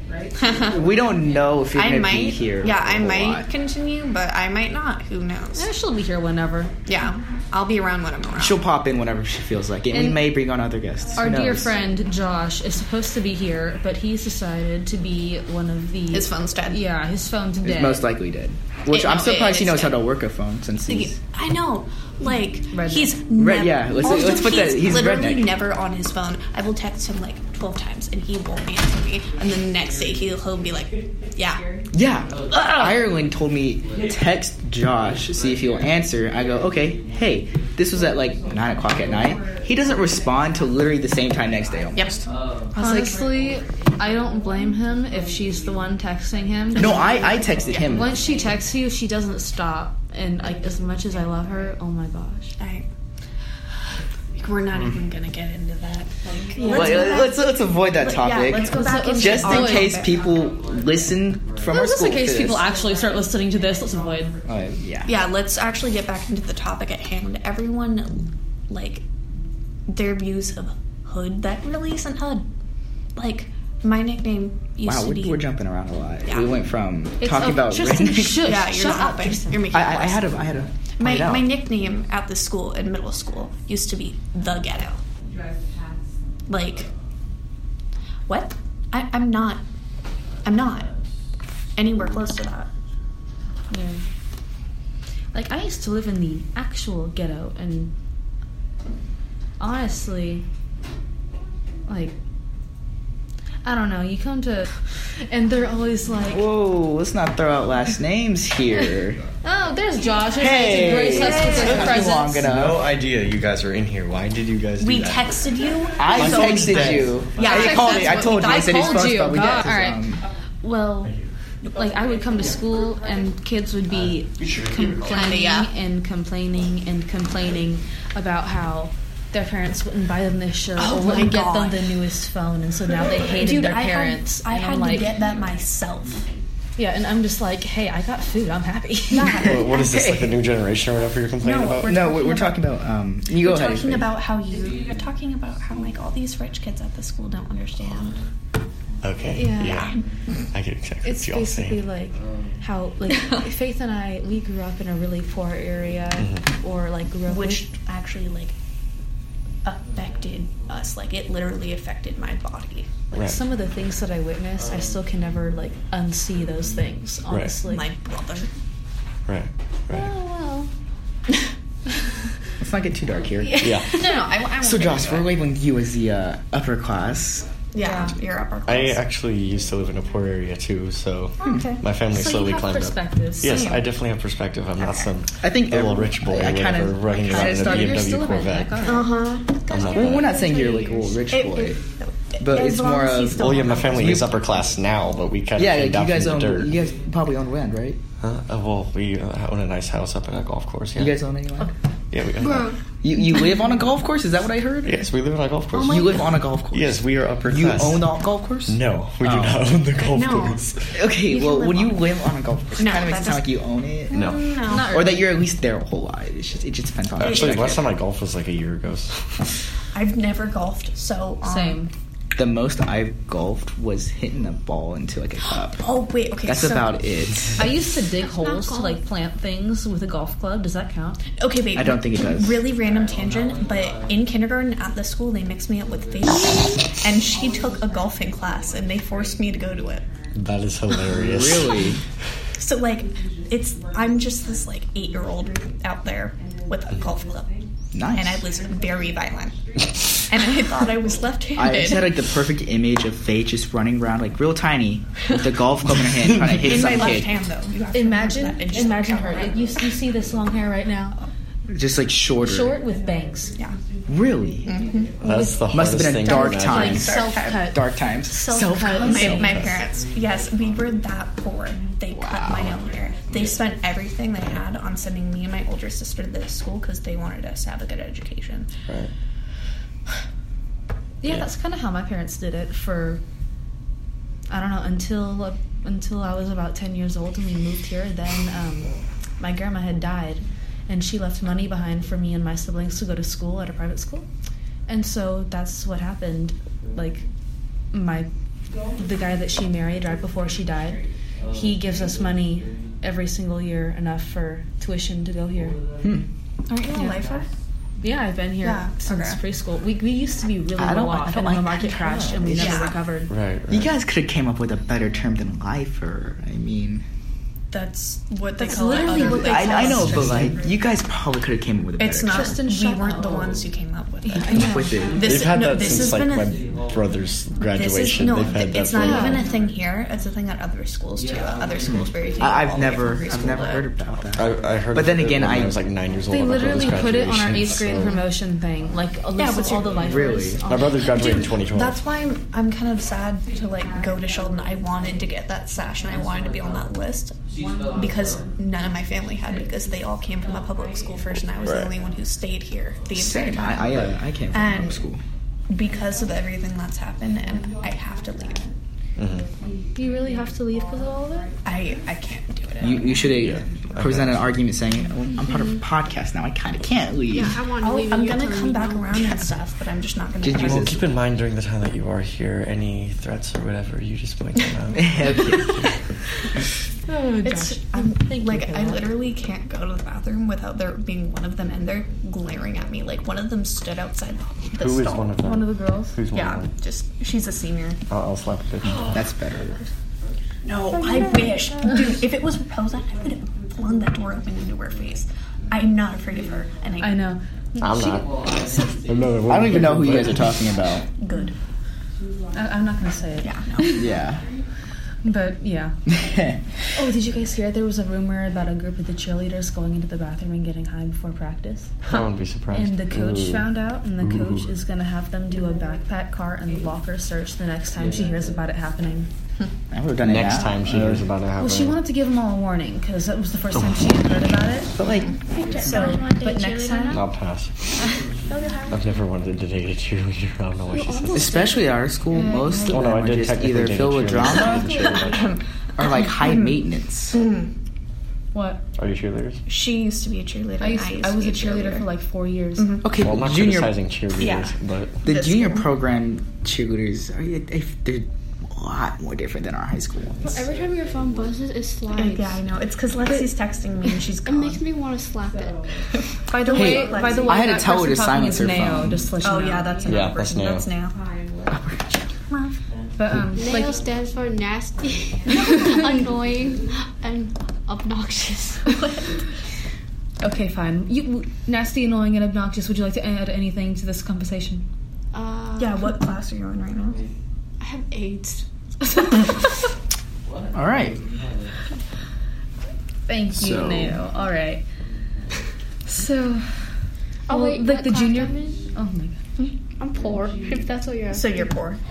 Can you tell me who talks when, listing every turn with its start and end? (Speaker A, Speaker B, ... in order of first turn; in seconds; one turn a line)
Speaker A: 0.4-0.8
Speaker B: 0.5-3.5
Speaker A: 1.7-5.7
Speaker C: 5.5-6.7
Speaker A: 6.8-8.6
Speaker B: 8.3-11.7
Speaker C: 9.9-10.3
Speaker C: 11.2-18.1
Speaker A: 16.1-16.8
Speaker B: 17.6-21.2
Speaker A: 18.9-20.0
Speaker A: 20.9-31.6
Speaker C: 22.7-23.2
Speaker B: 23.3-25.6
Speaker B: 31.9-42.3
Speaker A: 41.9-42.2
Speaker A: 42.7-43.2
Speaker C: 42.8-47.2
Speaker A: 46.7-48.2
Speaker B: 46.7-48.2
Speaker C: 47.8-52.5
Speaker A: 52.6-52.9
Speaker A: 54.4-60.3
Speaker C: 56.5-57.3
Speaker B: 56.6-62.7
Speaker C: 58.5-60.1
Speaker C: 61.7-64.4
Speaker B: 64.4-65.2
Speaker A: 65.0-69.0
Speaker A: 69.9-72.4
Speaker A: 73.2-75.4
Speaker B: 74.8-78.7
Speaker A: 76.3-76.5
Speaker C: 77.2-79.6
Speaker A: 78.3-80.3
Speaker B: 79.7-81.5
Speaker A: 80.9-85.0
Speaker A: 86.5-86.9
Speaker A: 88.3-89.6
Speaker A: 90.4-90.9
Speaker A: 91.8-92.7
Speaker C: 93.7-94.0
Speaker C: 95.3-97.9
Speaker C: 99.6-100.5
Speaker C: 101.9-102.1
Speaker C: 103.6-106.5
Speaker B: 106.3-109.2
Speaker C: 109.4-112.4
Speaker B: 110.4-112.9
Speaker A: 110.7-112.1
Speaker D: 111.6-115.4
Speaker A: 114.8-119.0
Speaker B: 116.0-120.2
Speaker D: 116.1-117.7
Speaker C: 117.4-120.1
Speaker C: 120.6-121.1
Speaker D: 121.0-121.3
Speaker C: 121.7-135.1
Speaker D: 123.9-125.1
Speaker A: 124.7-125.7
Speaker A: 130.8-131.9
Speaker A: 132.9-136.2
Speaker C: 136.8-139.6
Speaker A: 139.1-140.1
Speaker D: 139.3-141.9
Speaker B: 139.7-140.3
Speaker A: 141.4-142.7
Speaker B: 141.8-144.2
Speaker A: 143.3-148.2
Speaker D: 149.0-151.8
Speaker C: 149.3-149.9
Speaker A: 149.7-150.0
Speaker C: 151.0-157.6
Speaker D: 156.2-156.4
Speaker A: 157.3-158.5
Speaker A: 159.6-163.1
Speaker D: 163.1-163.4
Speaker C: 163.2-167.9
Speaker D: 167.3-167.6
Speaker A: 167.7-168.5
Speaker D: 169.2-170.1
Speaker C: 169.9-170.7
Speaker B: 172.6-173.8
Speaker A: 173.4-175.3
Speaker D: 173.5-174.1
Speaker B: 174.6-177.5
Speaker A: 177.7-179.0
Speaker C: 177.8-178.1
Speaker D: 178.7-188.9
Speaker A: 181.4-181.8
Speaker C: 182.1-183.7
Speaker A: 183.4-183.9
Speaker A: 184.8-185.1
Speaker B: 185.4-188.1
Speaker C: 187.3-189.1
Speaker A: 188.8-194.0
Speaker E: 188.9-191.0
Speaker D: 189.7-190.3
Speaker B: 189.8-191.8
Speaker B: 192.4-194.4
Speaker D: 193.3-196.8
Speaker B: 195.6-198.0
Speaker D: 198.2-201.2
Speaker B: 200.9-201.7
Speaker D: 202.1-202.7
Speaker E: 202.4-202.8
Speaker B: 203.0-205.1
Speaker D: 204.8-208.1
Speaker B: 205.7-209.7
Speaker D: 208.7-210.9
Speaker A: 209.9-212.1
Speaker B: 210.9-217.8
Speaker A: 212.8-213.5
Speaker A: 214.1-215.1
Speaker D: 214.1-214.4
Speaker C: 214.7-215.3
Speaker D: 217.2-219.1
Speaker A: 217.2-217.8
Speaker A: 219.9-221.8
Speaker C: 221.4-221.9
Speaker B: 222.3-225.8
Speaker A: 225.8-227.0
Speaker B: 226.4-227.6
Speaker C: 227.6-231.2
Speaker E: 228.2-229.0
Speaker A: 231.4-240.1
Speaker B: 231.7-232.7
Speaker D: 240.3-241.9
Speaker B: 241.1-242.0
Speaker A: 242.5-247.5
Speaker B: 247.9-248.4
Speaker A: 248.2-252.1
Speaker B: 251.6-257.4
Speaker A: 256.6-259.8
Speaker C: 257.9-261.1
Speaker B: 261.7-262.8
Speaker C: 262.4-263.6
Speaker B: 264.1-264.8
Speaker A: 264.6-265.2
Speaker D: 265.2-267.1
Speaker C: 265.2-269.8
Speaker B: 265.7-269.8
Speaker A: 266.2-267.7
Speaker A: 268.5-278.7
Speaker D: 269.2-269.8
Speaker B: 272.1-272.8
Speaker C: 281.2-283.2
Speaker C: 284.5-294.3
Speaker C: 294.9-297.3
Speaker C: 297.9-298.3
Speaker C: 298.9-305.8
Speaker A: 306.7-307.5
Speaker C: 306.9-307.2
Speaker C: 308.0-313.3
Speaker A: 308.6-309.4
Speaker B: 310.8-312.9
Speaker A: 312.5-312.9
Speaker D: 313.3-313.9
Speaker B: 313.7-317.0
Speaker A: 317.7-320.8
Speaker C: 318.6-320.4
Speaker B: 319.0-322.6
Speaker A: 322.0-326.6
Speaker C: 322.2-323.6
Speaker C: 324.2-325.1
Speaker B: 324.4-325.4
Speaker D: 325.1-329.4
Speaker A: 327.7-333.9
Speaker C: 328.9-329.5
Speaker B: 331.8-335.8
Speaker D: 334.3-338.2
Speaker C: 336.3-341.1
Speaker A: 339.4-340.3
Speaker B: 339.5-340.6
Speaker D: 340.6-342.0
Speaker A: 341.0-347.4
Speaker A: 347.9-355.0
Speaker D: 351.6-351.9
Speaker B: 353.1-355.2
Speaker A: 355.7-358.7
Speaker D: 359.1-359.5
Speaker C: 359.9-361.5
Speaker A: 361.6-363.4
Speaker B: 362.8-367.6
Speaker D: 363.3-364.4
Speaker E: 367.3-369.4
Speaker A: 367.8-371.0
Speaker B: 370.4-371.1
Speaker D: 370.5-375.8
Speaker B: 374.9-375.7
Speaker C: 377.1-379.1
Speaker A: 377.4-385.3
Speaker D: 384.8-386.7
Speaker C: 385.4-386.1
Speaker A: 386.3-388.0
Speaker D: 388.1-389.2
Speaker B: 389.1-389.8
Speaker A: 390.6-397.2
Speaker C: 390.9-392.0
Speaker C: 397.0-398.9
Speaker D: 397.8-400.7
Speaker B: 399.4-401.1
Speaker A: 401.2-401.5
Speaker C: 402.5-404.1
Speaker A: 403.4-404.1
Speaker B: 403.8-404.5
Speaker C: 405.2-405.9
Speaker B: 406.1-406.6
Speaker C: 406.9-419.3
Speaker D: 412.0-413.7
Speaker D: 414.2-414.6
Speaker B: 419.9-421.3
Speaker D: 420.2-422.0
Speaker C: 421.6-424.9
Speaker B: 424.9-425.3
Speaker E: 425.5-427.3
Speaker A: 425.8-426.6
Speaker C: 425.8-427.2
Speaker D: 427.1-427.7
Speaker E: 428.4-429.2
Speaker D: 428.9-431.6
Speaker E: 430.9-432.0
Speaker B: 431.3-434.9
Speaker C: 432.3-433.1
Speaker D: 432.9-435.6
Speaker A: 434.5-436.7
Speaker E: 434.6-435.4
Speaker B: 436.0-437.4
Speaker A: 437.3-437.7
Speaker C: 438.5-438.8
Speaker D: 438.9-439.6
Speaker A: 439.7-442.1
Speaker C: 440.8-443.0
Speaker A: 442.8-443.1
Speaker B: 443.0-443.9
Speaker D: 443.1-445.2
Speaker A: 444.4-444.7
Speaker B: 445.2-450.5
Speaker A: 445.2-445.9
Speaker E: 450.4-452.6
Speaker A: 452.1-454.8
Speaker E: 454.4-455.9
Speaker A: 456.4-457.7
Speaker C: 456.6-460.0
Speaker B: 456.6-459.3
Speaker A: 459.4-461.1
Speaker D: 460.1-460.9
Speaker B: 461.7-462.1
Speaker C: 463.2-464.0
Speaker E: 463.5-469.1
Speaker C: 465.5-466.2
Speaker A: 465.6-466.2
Speaker C: 470.4-474.8
Speaker E: 475.3-476.1
Speaker A: 475.8-477.2
Speaker E: 477.8-478.6
Speaker C: 479.0-479.6
Speaker B: 480.7-481.2
Speaker C: 483.3-484.8
Speaker D: 483.6-484.1
Speaker B: 483.6-484.1
Speaker C: 486.0-486.7
Speaker E: 487.5-488.8
Speaker C: 487.5-489.4
Speaker E: 490.0-491.7
Speaker A: 491.3-492.0